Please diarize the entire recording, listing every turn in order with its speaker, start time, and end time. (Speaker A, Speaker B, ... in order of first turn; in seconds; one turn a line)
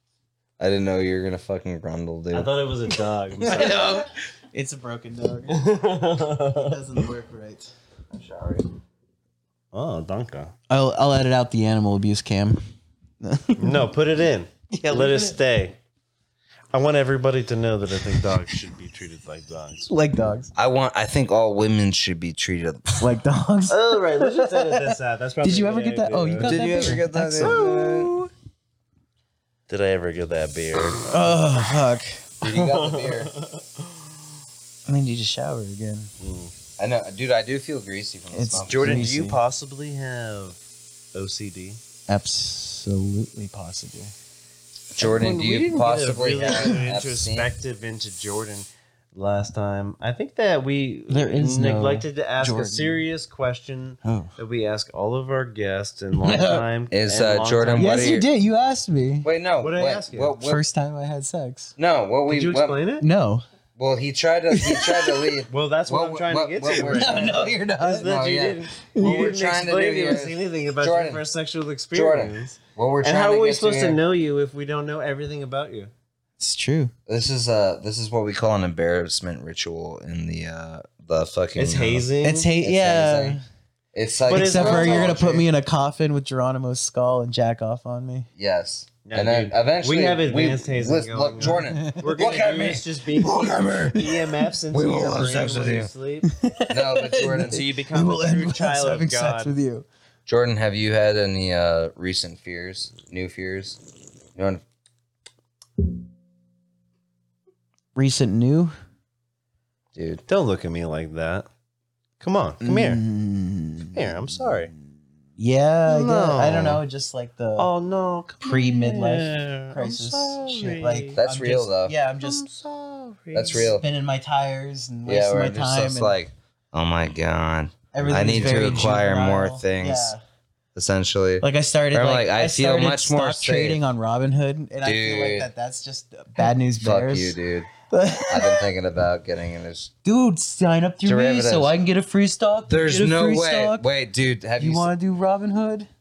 Speaker A: 0.6-2.6
Speaker B: 2.3-3.9
Speaker A: 3.4-4.0
Speaker C: 3.5-7.7
Speaker B: 5.5-6.8
Speaker A: 8.1-8.7
Speaker B: 9.7-10.5
Speaker C: 10.7-12.6
Speaker C: 13.2-13.9
Speaker B: 13.6-15.8
Speaker C: 14.7-15.4
Speaker B: 16.7-19.9
Speaker C: 19.9-20.5
Speaker A: 20.6-23.1
Speaker C: 23.0-28.3
Speaker B: 23.7-26.6
Speaker A: 26.4-28.1
Speaker B: 27.4-27.7
Speaker B: 29.7-31.3
Speaker C: 31.1-32.2
Speaker A: 32.4-33.3
Speaker B: 32.4-33.9
Speaker C: 34.9-36.1
Speaker B: 36.2-36.5
Speaker A: 36.8-39.1
Speaker C: 38.3-39.4
Speaker B: 38.6-40.6
Speaker B: 41.1-41.8
Speaker C: 42.1-44.1
Speaker A: 44.9-47.5
Speaker B: 45.0-58.1
Speaker C: 51.1-53.1
Speaker C: 54.0-54.3
Speaker C: 56.2-56.7
Speaker A: 56.9-58.3
Speaker C: 57.8-59.3
Speaker A: 59.2-60.6
Speaker B: 59.6-60.4
Speaker C: 60.4-61.7
Speaker A: 61.8-62.8
Speaker B: 62.3-63.1
Speaker C: 63.0-63.5
Speaker A: 63.8-71.2
Speaker C: 64.5-65.4
Speaker B: 65.5-75.9
Speaker C: 66.7-68.2
Speaker C: 68.9-69.3
Speaker A: 71.9-74.0
Speaker C: 76.4-76.9
Speaker A: 77.1-82.1
Speaker B: 81.6-82.5
Speaker C: 82.2-83.4
Speaker A: 82.6-83.4
Speaker A: 83.9-85.2
Speaker B: 84.3-85.5
Speaker C: 84.3-88.3
Speaker A: 88.4-94.1
Speaker B: 89.0-96.3
Speaker C: 91.5-92.2
Speaker A: 94.7-95.9
Speaker C: 96.2-99.9
Speaker A: 96.7-97.7
Speaker B: 97.4-99.5
Speaker A: 100.3-103.8
Speaker A: 104.4-104.6
Speaker C: 108.0-108.7
Speaker A: 110.0-110.2
Speaker B: 110.3-111.5
Speaker B: 112.2-113.0
Speaker C: 112.6-114.7
Speaker B: 113.9-114.7
Speaker C: 115.4-117.7
Speaker B: 115.9-116.8
Speaker B: 117.6-121.2
Speaker C: 118.4-122.5
Speaker A: 121.2-121.9
Speaker B: 122.2-123.7
Speaker A: 123.3-123.8
Speaker C: 123.5-126.2
Speaker A: 125.1-130.1
Speaker C: 127.9-130.2
Speaker A: 130.8-133.8
Speaker C: 131.4-138.7
Speaker A: 134.8-135.5
Speaker A: 136.8-137.7
Speaker A: 138.3-139.9
Speaker C: 140.0-143.9
Speaker A: 141.1-141.8
Speaker A: 142.7-144.9
Speaker C: 144.6-145.9